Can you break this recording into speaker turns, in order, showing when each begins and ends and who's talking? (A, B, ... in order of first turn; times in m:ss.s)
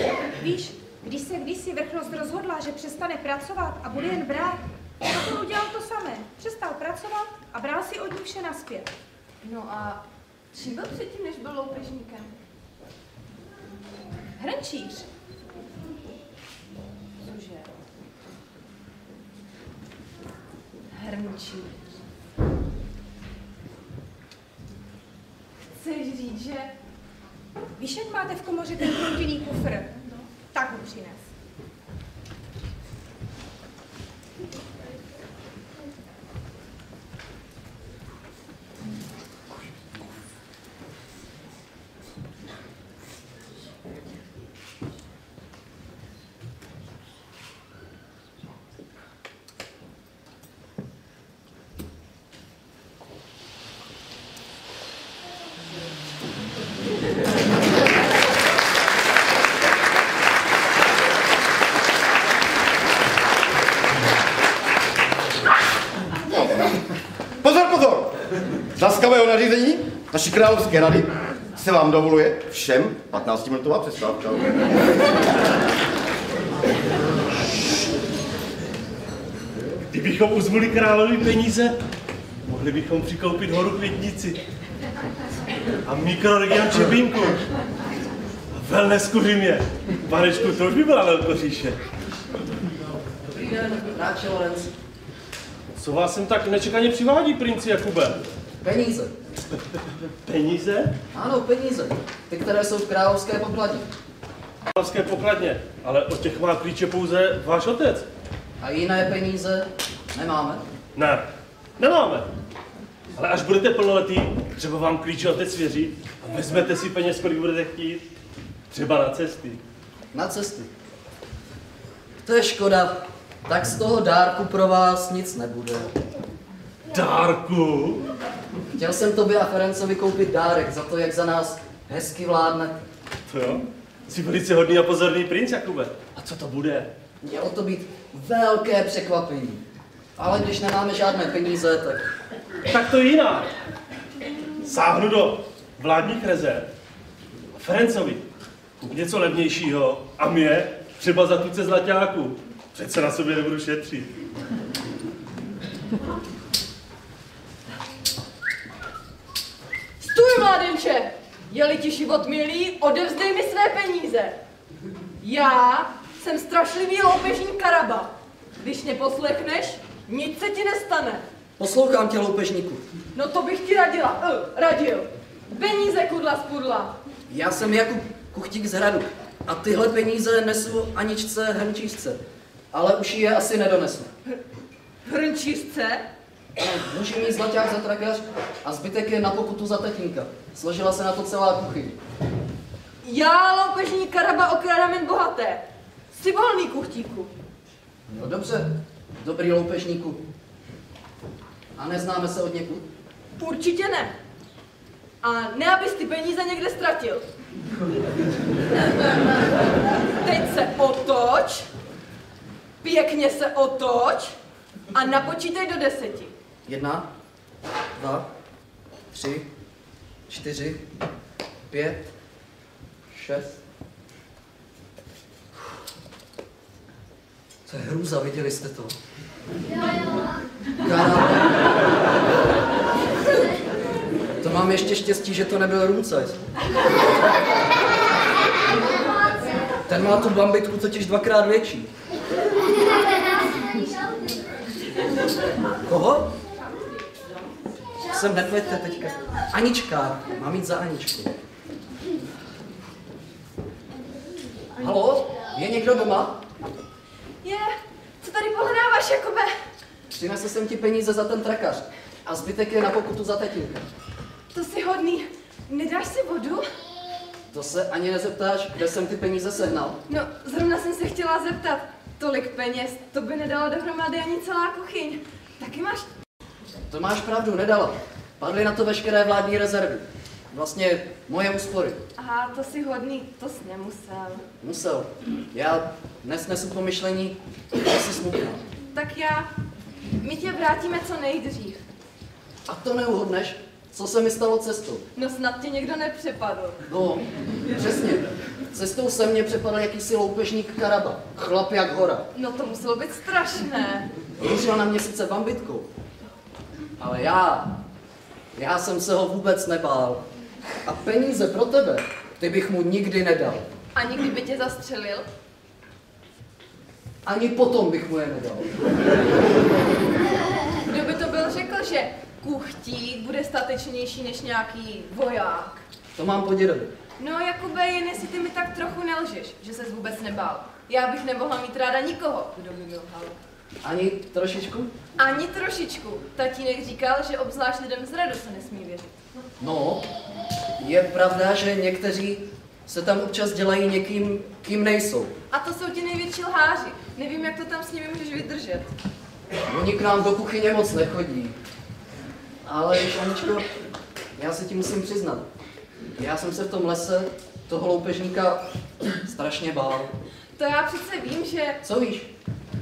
0:00.4-0:08.9 A
0:09.4-0:10.0 B
0:10.5-0:12.3 B
0:14.4-0:15.0 A
0:17.2-0:17.7 B
0:20.9-0:21.8 B
0:25.8-0:26.7 B
0:27.8-0:31.2 A
1:06.4-1:06.7 C
1:07.4-1:08.2 C
1:08.7-1:14.6 C
1:19.9-1:21.7 D
1:22.4-1:24.4 D
1:25.8-1:27.4 D
1:28.5-1:31.8 D
1:33.3-1:34.7 E
1:35.8-1:38.2 D
1:38.6-1:39.1 E
1:40.2-1:40.9 D
1:41.1-1:43.9 E
1:44.7-1:48.1 D
1:48.6-1:50.6 E
1:51.0-1:51.2 D
1:51.8-1:52.3 D
1:53.2-1:58.1 D
1:58.7-1:59.6 D
2:00.1-2:00.7 E
2:02.2-2:05.9 E
2:06.9-2:08.0 D
2:08.8-2:12.8 E
2:13.3-2:16.9 D
2:17.2-2:19.6 E
2:20.2-2:22.1 E
2:22.7-2:23.5 D
2:24.6-2:26.7 D
2:27.6-2:28.2 D
2:28.8-2:34.1 D
2:40.0-2:44.4 B
2:45.2-2:51.2 B
2:51.6-2:52.8 E
2:53.1-2:56.9 B
2:57.3-3:02.2 E
3:02.7-3:04.1 E
3:05.1-3:06.0 B
3:06.6-3:12.0 E
3:13.0-3:17.3 B
3:18.1-3:20.2 E
3:21.8-3:22.8 E
3:23.4-3:24.1 B
3:25.2-3:27.2 B
3:30.2-3:31.7 B
3:32.8-3:34.4 B
3:34.9-3:36.3 B
3:36.7-3:37.1 E
3:38.0-3:38.2 E
3:39.1-3:39.5 E
3:40.3-3:40.8 E
3:41.7-3:42.0 E
3:43.1-3:43.6 E
3:47.7-3:49.0 E
3:50.8-3:51.5 E
3:54.4-3:56.4 E
3:59.9-4:01.9 E
4:05.9-4:06.3 E
4:08.1-4:11.3 E
4:14.8-4:16.4 E
4:17.4-4:19.5 B
4:20.1-4:23.9 E
4:24.5-4:26.6 B
4:27.5-4:30.0 E
4:30.1-4:36.1 B
4:36.9-4:42.0 E
4:42.2-4:44.4 B
4:44.6-4:48.6 E
4:48.9-4:49.5 B
4:50.2-4:51.8 B
4:52.7-4:55.0 E
4:55.2-4:56.8 B
4:56.9-5:02.3 E
5:02.4-5:04.1 B
5:04.4-5:05.9 E
5:07.0-5:07.7 E
5:08.6-5:10.2 E
5:10.8-5:13.6 E
5:13.9-5:15.2 B
5:17.2-5:18.7 E
5:20.9-5:25.8 B
5:26.2-5:26.9 E
5:27.2-5:33.4 B
5:33.8-5:34.9 E
5:35.2-5:39.1 B
5:39.6-5:40.1 E
5:40.8-5:45.3 E
5:45.5-5:48.9 B
5:49.7-5:51.6 E
5:52.6-5:53.7 E
5:54.4-5:55.4 E
5:56.2-5:58.6 E
5:59.2-6:00.1 E
6:00.6-6:01.8 B
6:01.8-6:02.3 E